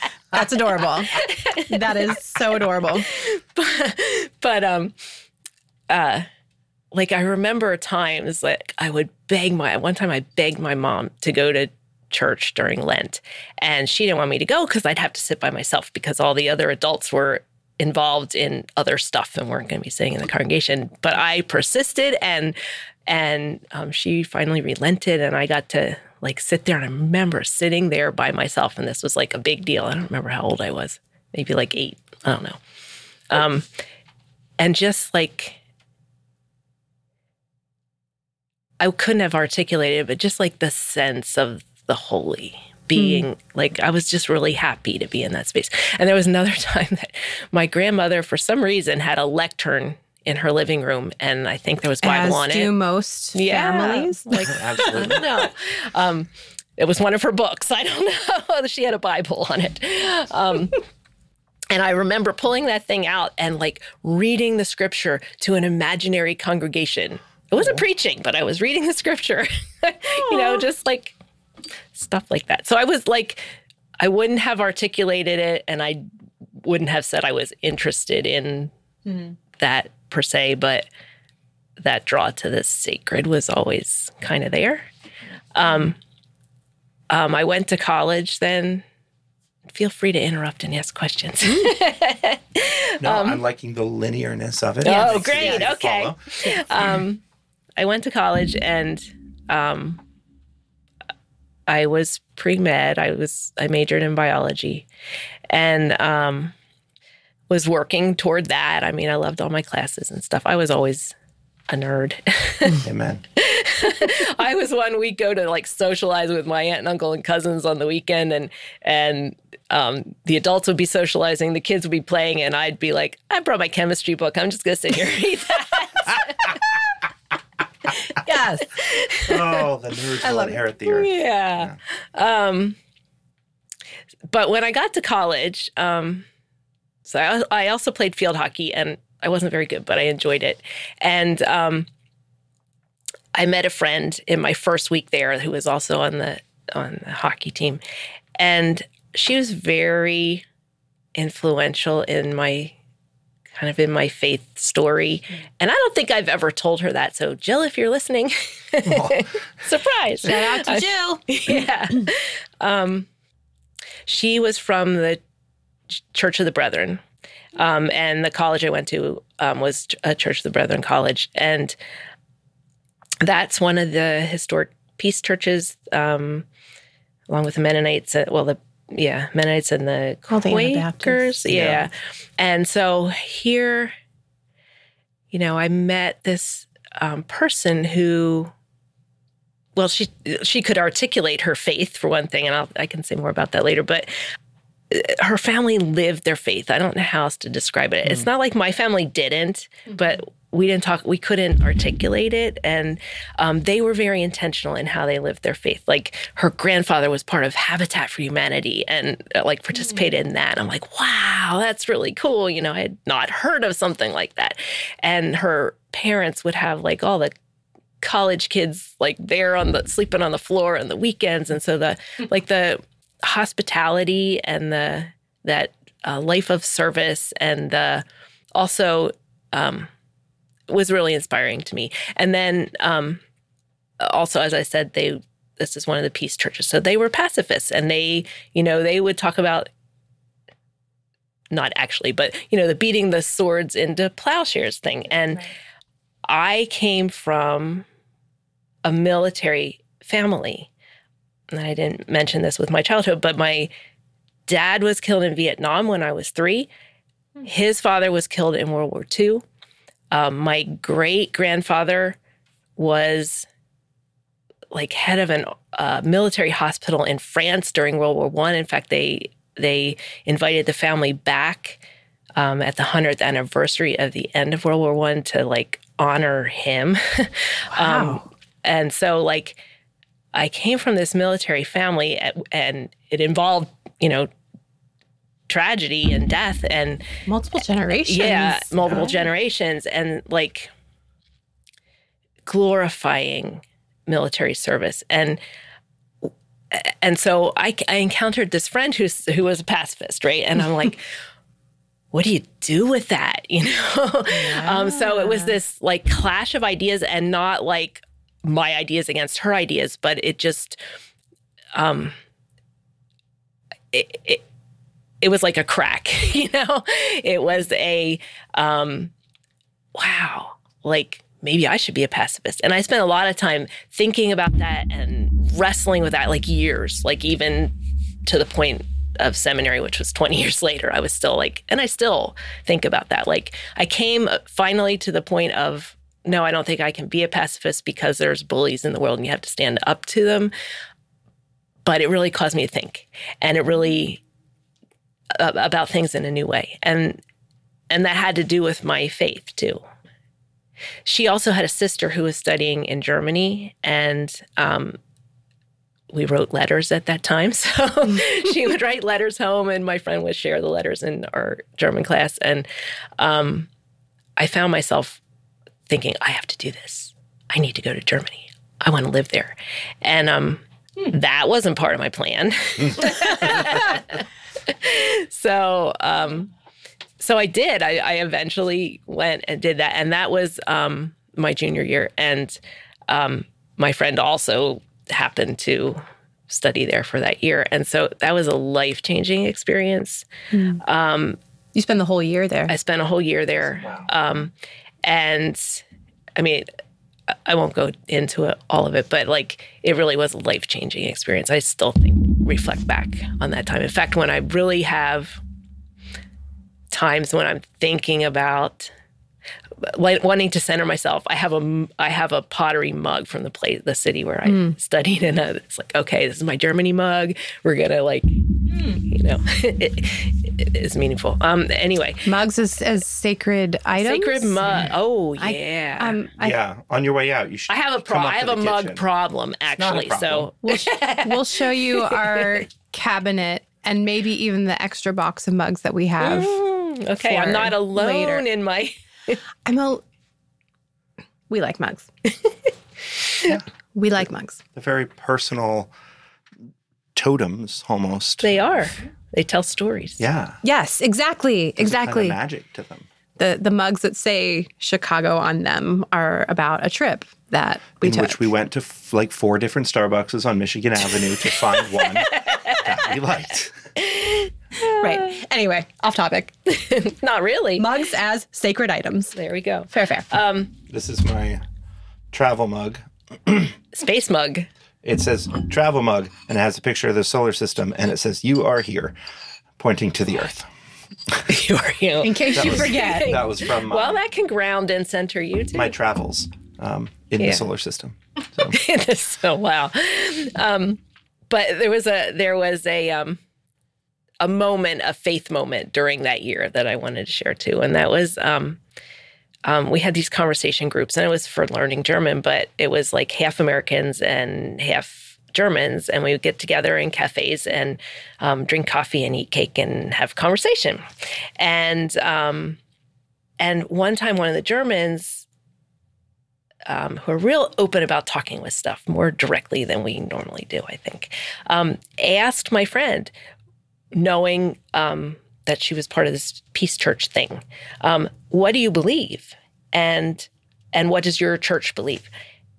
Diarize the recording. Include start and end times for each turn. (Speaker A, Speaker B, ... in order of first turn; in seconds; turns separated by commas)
Speaker A: 0.3-1.2, Speaker B: 1.1-2.3, Speaker A: 1.7-3.1, Speaker B: 3.0-4.9, Speaker B: 5.9-6.2, Speaker B: 6.9-22.6, Speaker B: 23.1-32.6, Speaker B: 33.3-33.7, Speaker B: 34.6-35.6, Speaker B: 38.8-52.7, Speaker A: 42.9-43.3, Speaker A: 52.0-54.9, Speaker B: 53.3-60.8, Speaker C: 54.4-55.5, Speaker B: 61.7-71.1, Speaker B: 71.9-73.4, Speaker B: 74.0-76.0, Speaker B: 76.6-78.7, Speaker B: 79.6-80.9, Speaker B: 81.8-84.9, Speaker B: 85.5-86.0, Speaker B: 87.1-88.8, Speaker B: 89.7-93.4, Speaker A: 91.5-91.7, Speaker C: 93.0-96.3, Speaker B: 94.8-97.2, Speaker A: 94.8-95.7, Speaker A: 96.4-96.9, Speaker B: 97.8-100.0, Speaker B: 101.7-104.9, Speaker B: 105.5-106.5, Speaker B: 107.5-111.1, Speaker B: 111.7-126.6, Speaker C: 112.8-113.2, Speaker A: 128.2-128.7, Speaker B: 128.7-129.6, Speaker C: 129.3-131.8, Speaker A: 130.2-130.6, Speaker B: 130.9-132.8, Speaker B: 134.3-136.3, Speaker B: 137.1-141.9, Speaker B: 143.3-147.8, Speaker B: 148.4-150.4, Speaker B: 151.2-152.8, Speaker B: 153.5-163.1, Speaker C: 158.9-159.3, Speaker A: 160.3-161.6, Speaker B: 164.1-165.2, Speaker B: 165.9-167.0, Speaker B: 167.6-171.8, Speaker B: 173.2-176.4, Speaker B: 177.3-183.9, Speaker A: 180.3-181.4, Speaker C: 181.5-181.8, Speaker B: 185.3-188.5, Speaker B: 189.8-194.1, Speaker B: 194.9-217.3, Speaker B: 218.0-229.9, Speaker B: 230.7-233.2, Speaker B: 234.0-239.7, Speaker B: 241.5-245.5, Speaker B: 246.2-247.8, Speaker B: 248.8-250.7, Speaker B: 251.5-253.7, Speaker B: 254.5-256.7, Speaker B: 257.4-259.4, Speaker B: 260.1-262.2, Speaker B: 262.8-263.5, Speaker B: 264.7-271.8, Speaker B: 272.4-279.6, Speaker A: 277.7-278.2, Speaker B: 280.3-284.3, Speaker B: 285.5-287.1, Speaker A: 287.3-289.1, Speaker B: 288.0-290.7, Speaker B: 292.4-295.4, Speaker B: 296.2-301.1, Speaker B: 302.1-310.8, Speaker A: 304.3-305.6, Speaker B: 311.8-312.1, Speaker B: 313.9-314.4, Speaker B: 315.2-319.1, Speaker B: 319.9-327.7, Speaker B: 328.2-340.5, Speaker B: 341.8-344.2, Speaker B: 345.3-347.2, Speaker B: 347.9-349.8, Speaker B: 351.1-355.0, Speaker B: 356.1-363.7, Speaker B: 364.4-365.2, Speaker B: 365.9-376.5, Speaker B: 377.2-390.3, Speaker A: 390.5-390.8, Speaker B: 390.8-391.4, Speaker A: 391.8-392.7, Speaker B: 392.7-394.5, Speaker B: 395.0-395.8, Speaker B: 396.4-396.7, Speaker B: 397.3-405.4, Speaker B: 406.9-408.9, Speaker B: 409.8-422.3, Speaker A: 414.4-414.8, Speaker A: 422.2-426.6, Speaker B: 423.9-426.2, Speaker C: 426.4-429.0, Speaker B: 427.7-432.6, Speaker C: 429.8-430.5, Speaker A: 430.6-436.6, Speaker B: 436.2-439.4, Speaker A: 437.2-438.4, Speaker A: 439.7-440.0, Speaker A: 441.5-442.1, Speaker A: 443.9-444.6, Speaker C: 444.8-445.9, Speaker C: 447.1-448.6, Speaker B: 448.4-450.2, Speaker C: 450.2-450.6, Speaker A: 450.6-452.4, Speaker C: 451.8-453.1, Speaker A: 453.4-458.5, Speaker C: 458.0-463.9, Speaker B: 461.6-462.9, Speaker B: 464.0-465.4, Speaker A: 464.8-466.5, Speaker B: 466.7-467.9, Speaker A: 467.8-469.4, Speaker B: 469.4-470.7, Speaker A: 469.9-470.3, Speaker C: 470.9-471.6, Speaker C: 472.3-473.8, Speaker B: 473.9-474.7, Speaker C: 475.0-479.1, Speaker C: 479.8-480.7, Speaker B: 481.5-485.9, Speaker A: 482.2-483.3, Speaker C: 482.5-484.2, Speaker C: 485.7-488.8, Speaker B: 487.4-487.7, Speaker B: 488.7-493.4, Speaker B: 494.4-498.8, Speaker B: 499.6-511.0, Speaker B: 511.6-512.8, Speaker B: 513.6-515.5, Speaker B: 516.9-523.3, Speaker B: 524.1-532.3